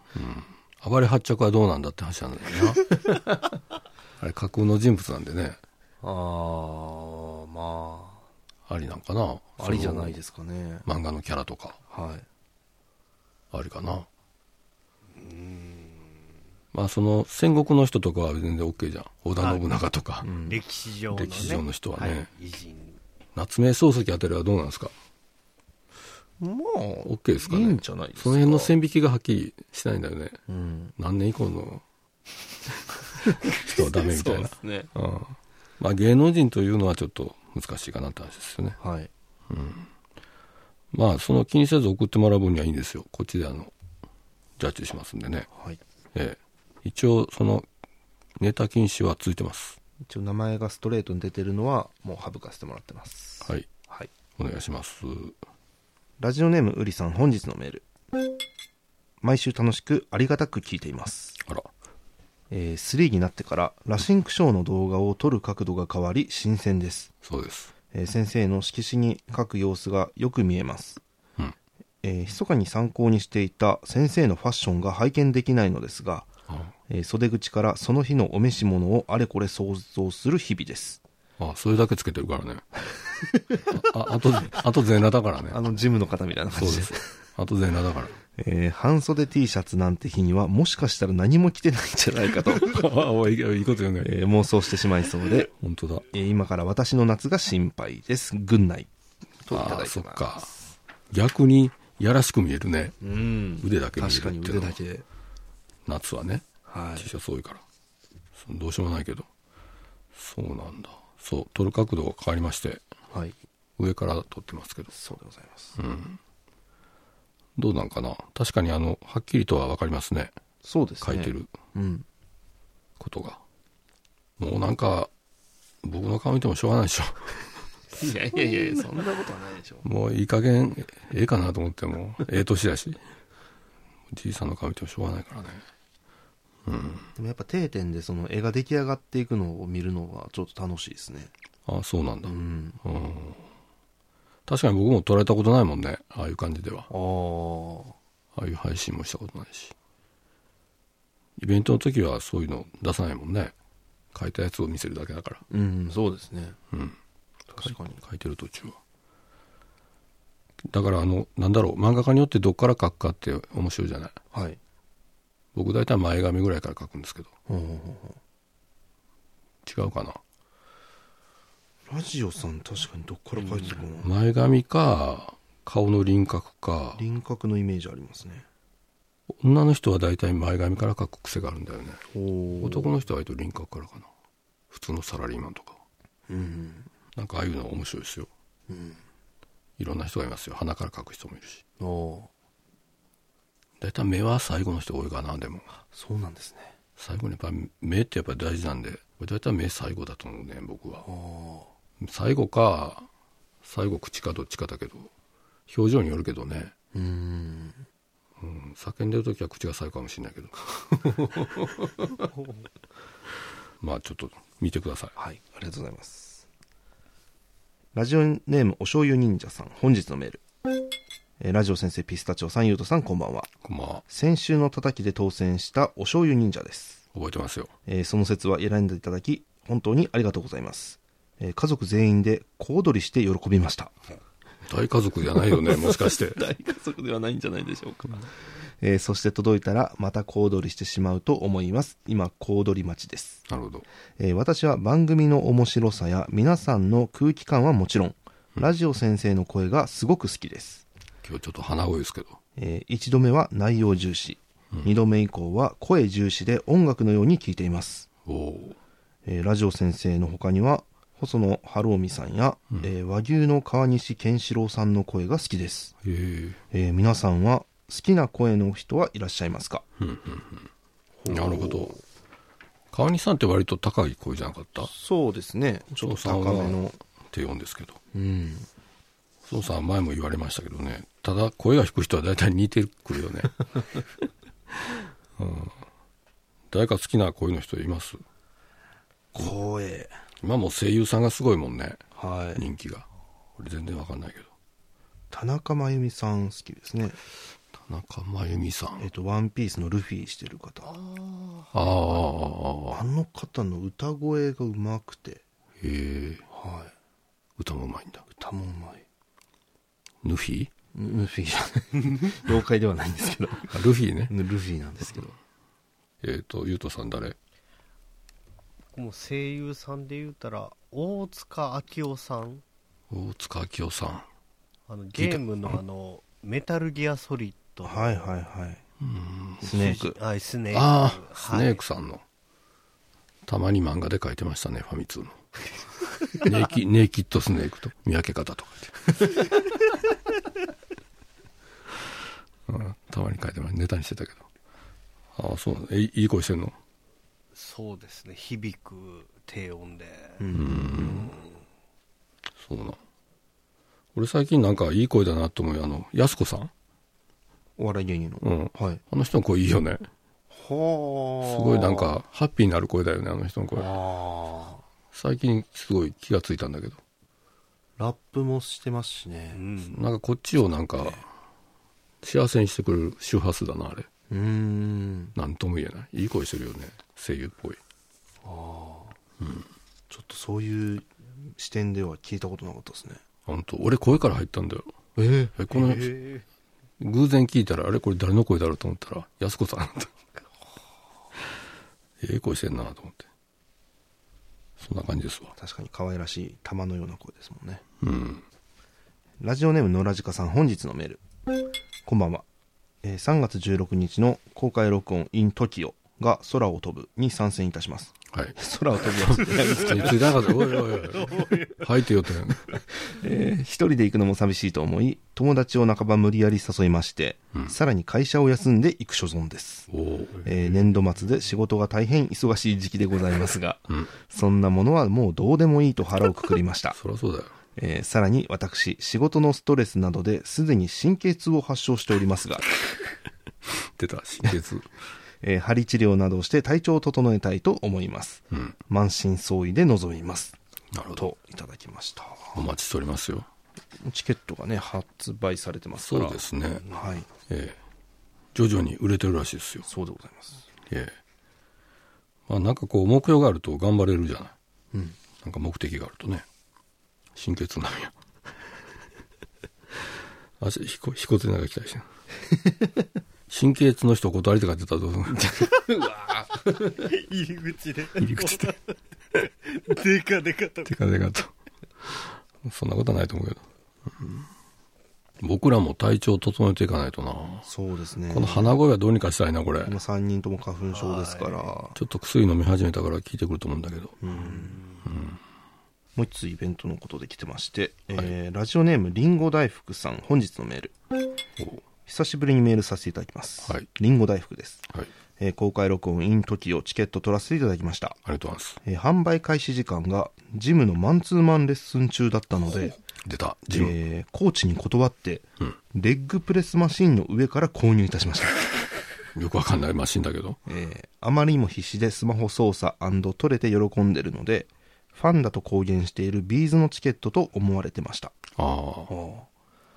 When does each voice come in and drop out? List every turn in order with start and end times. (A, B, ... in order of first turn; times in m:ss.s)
0:00.2-0:03.0 A
0:03.0-0:03.5 B
0:04.2-0:05.6 A
0:06.0-0:08.3 B
0:08.7-0:10.2 A
0:09.6-0:10.9 B
0:10.9-0:11.8 A
0:11.9-0:12.3 B
0:13.5-0:14.1 A
0:15.2-0:16.0 C
0:16.7-0:20.3 A
0:20.2-0:20.6 B
0:20.4-0:23.0 C
0:21.1-0:22.3 A
0:23.4-0:24.9 A
0:26.4-0:28.7 B
0:27.0-0:30.4 A
0:30.5-0:31.0 B
0:31.0-0:31.8 A
0:33.4-0:34.9 B
0:33.4-0:38.8 A
0:38.8-0:39.1 B
0:39.5-0:39.9 A
0:40.9-0:43.7 A
0:44.6-0:45.5 A
0:45.5-0:45.8 B
0:46.2-0:47.7 A
0:48.4-0:49.8 A
0:50.0-0:54.1 B
0:53.4-0:53.7 A
0:54.4-0:55.4 A
0:56.2-0:57.9 B
0:59.2-1:01.4 B
1:02.5-1:07.1 B
1:07.2-1:07.7 A
1:07.9-1:11.0 B
1:12.0-1:16.3 B
1:16.5-1:16.7 A
1:16.9-1:21.0 B
1:21.4-1:22.7 A
1:23.7-1:25.6 A
1:25.5-1:27.2 B
1:26.6-1:28.2 A
1:28.4-1:32.9 B
1:32.5-1:34.2 A
1:34.0-1:35.5 B
1:35.6-1:36.1 A
1:36.1-1:38.9 B
1:39.4-1:40.3 B
1:39.5-1:40.5 A
1:41.1-1:43.0 A
1:43.0-1:45.1 B
1:43.6-1:44.8 A
1:45.9-1:46.5 A
1:46.7-1:47.1 B
1:47.0-1:47.6 A
1:48.4-1:49.3 A
1:50.2-1:52.8 A
1:53.1-1:53.4 B
1:53.8-1:54.9 A
1:54.9-1:55.8 B
1:55.8-1:56.2 A
1:57.6-2:00.3 A
2:00.6-2:02.1 B
2:01.0-2:01.5 A
2:03.0-2:03.4 A
2:04.4-2:05.1 A
2:05.8-2:07.6 A
2:07.9-2:09.9 B
2:09.8-2:13.0 A
2:14.1-2:15.6 A
2:16.7-2:17.1 A
2:17.2-2:21.3 B
2:21.7-2:23.4 A
2:22.2-2:22.8 B
2:24.5-2:26.9 A
2:26.9-2:28.0 B
2:28.4-2:29.7 A
2:31.4-2:33.5 A
2:34.1-2:35.4 A
2:35.5-2:36.6 B
2:37.5-2:38.0 B
2:37.6-2:38.8 A
2:40.7-2:44.2 A
2:44.3-2:44.6 B
2:45.5-2:47.3 A
2:47.5-2:48.2 B
2:49.6-2:50.2 A
2:51.9-2:54.1 B
2:54.0-2:57.0 A
2:57.0-2:58.5 B
2:59.4-3:02.0 A
3:02.1-3:02.9 B
3:02.6-3:04.1 A
3:04.7-3:05.8 A
3:06.3-3:06.9 B
3:07.2-3:08.3 A
3:08.7-3:09.0 B
3:09.8-3:11.6 A
3:11.8-3:12.3 B
3:13.8-3:15.7 A
3:15.9-3:16.8 B
3:17.0-3:21.1 A
3:21.0-3:21.7 B
3:22.0-3:23.1 A
3:23.6-3:25.1 A
3:25.7-3:26.7 A
3:26.9-3:27.9 B
3:28.4-3:30.6 A
3:31.0-3:31.7 B
3:33.8-3:35.1 A
3:35.2-3:36.5 B
3:37.9-3:40.4 B
3:41.4-3:43.5 B
3:43.6-3:44.0 A
3:44.1-3:47.0 B
3:47.1-3:47.7 A
3:47.9-3:53.9 B
3:54.7-3:56.4 A
3:55.5-4:03.4 B
4:03.5-4:03.9 A
4:04.2-4:10.9 B
4:11.2-4:12.4 A
4:12.6-4:18.1 B
4:18.3-4:18.8 A
4:19.2-4:26.0 B
4:26.0-4:26.6 A
4:26.7-4:29.8 B
4:30.0-4:30.7 A
4:31.2-4:32.0 B
4:31.3-4:31.9 A
4:32.9-4:34.9 A
4:34.8-4:37.0 B
4:36.0-4:38.0 A
4:38.1-4:38.7 B
4:39.4-4:43.8 A
4:45.4-4:45.8 A
4:46.7-4:48.2 A
4:49.3-4:50.2 B
4:50.4-4:52.0 A
4:52.2-4:52.6 B
4:52.6-4:54.5 A
4:55.3-4:57.2 B
4:57.8-4:59.1 A
4:59.0-5:01.0 B
5:00.9-5:01.9 C
5:01.7-5:03.0 A
5:02.9-5:05.4 B
5:05.8-5:06.4 A
5:06.5-5:06.9 B
5:07.6-5:08.2 A
5:08.3-5:09.1 B
5:10.2-5:10.7 A
5:10.9-5:13.8 B
5:13.7-5:14.3 A
5:14.3-5:15.4 B
5:16.2-5:17.4 A
5:18.9-5:22.6 C
5:23.1-5:24.3 A
5:24.9-5:28.3 C
5:25.2-5:25.4 A
5:27.8-5:28.8 B
5:29.0-5:29.9 A
5:29.6-5:30.2 B
5:29.7-5:31.8 C
5:30.7-5:32.2 A
5:33.5-5:35.4 A
5:36.3-5:39.4 A
5:42.7-5:44.5 A
5:45.4-5:46.8 A
5:47.5-5:50.5 C
5:50.4-5:51.3 B
5:50.6-5:51.3 A
5:52.6-5:53.0 A
5:54.2-5:56.7 A
5:57.8-5:59.0 B
5:58.4-6:00.1 A
6:00.5-6:02.2 B
6:01.4-6:03.9 A
6:03.8-6:04.8 B
6:05.1-6:07.0 A
6:08.0-6:09.6 B
6:09.5-6:10.0 C
6:09.9-6:11.2 A
6:12.2-6:14.1 A
6:14.3-6:15.4 B
6:15.4-6:17.8 A
6:18.4-6:19.2 B
6:19.4-6:19.7 A
6:20.1-6:23.2 B
6:23.5-6:24.9 A
6:25.2-6:26.1 B
6:25.5-6:26.3 A
6:27.0-6:30.1 A
6:32.2-6:33.3 A
6:34.8-6:35.5 A
6:35.6-6:37.8 B
6:38.0-6:38.4 A
6:39.4-6:41.2 B
6:42.0-6:42.5 B
6:43.0-6:51.4 B
6:49.2-6:52.7 A
6:51.3-6:51.7 C
6:53.0-6:59.9 B
6:59.9-7:00.5 A
7:00.4-7:07.0 B
7:07.0-7:07.6 A
7:07.8-7:12.7 B
7:14.0-7:14.9 A
7:15.4-7:20.6 B
7:20.9-7:21.3 A
7:21.1-7:22.6 B
7:22.5-7:23.5 A
7:24.0-7:27.3 B
7:26.0-7:26.9 A
7:27.5-7:27.8 A
7:28.6-7:29.9 A
7:29.8-7:30.7 B
7:30.9-7:31.2 A
7:32.5-7:34.5 A
7:34.9-7:35.2 B
7:35.4-7:36.4 A
7:37.4-7:38.2 A
7:40.6-7:42.1 A
7:43.5-7:45.8 A
7:45.4-7:46.8 B
7:47.0-7:48.8 C
7:48.2-7:48.7 A
7:49.6-7:50.9 C
7:50.8-7:53.6 A
7:55.4-7:57.7 A
7:57.6-7:58.8 B
7:58.3-8:00.0 A
7:59.8-8:02.0 B
8:00.9-8:01.7 C
8:02.0-8:04.2 A
8:04.2-8:04.8 B
8:04.7-8:05.1 C
8:05.1-8:05.4 A
8:06.2-8:11.0 B
8:12.1-8:18.2 B
8:18.3-8:18.8 A
8:18.8-8:23.0 B
8:23.2-8:24.0 A
8:23.7-8:28.9 B
8:29.4-8:30.6 A
8:30.7-8:38.4 B
8:38.6-8:39.1 A
8:39.1-8:39.5 B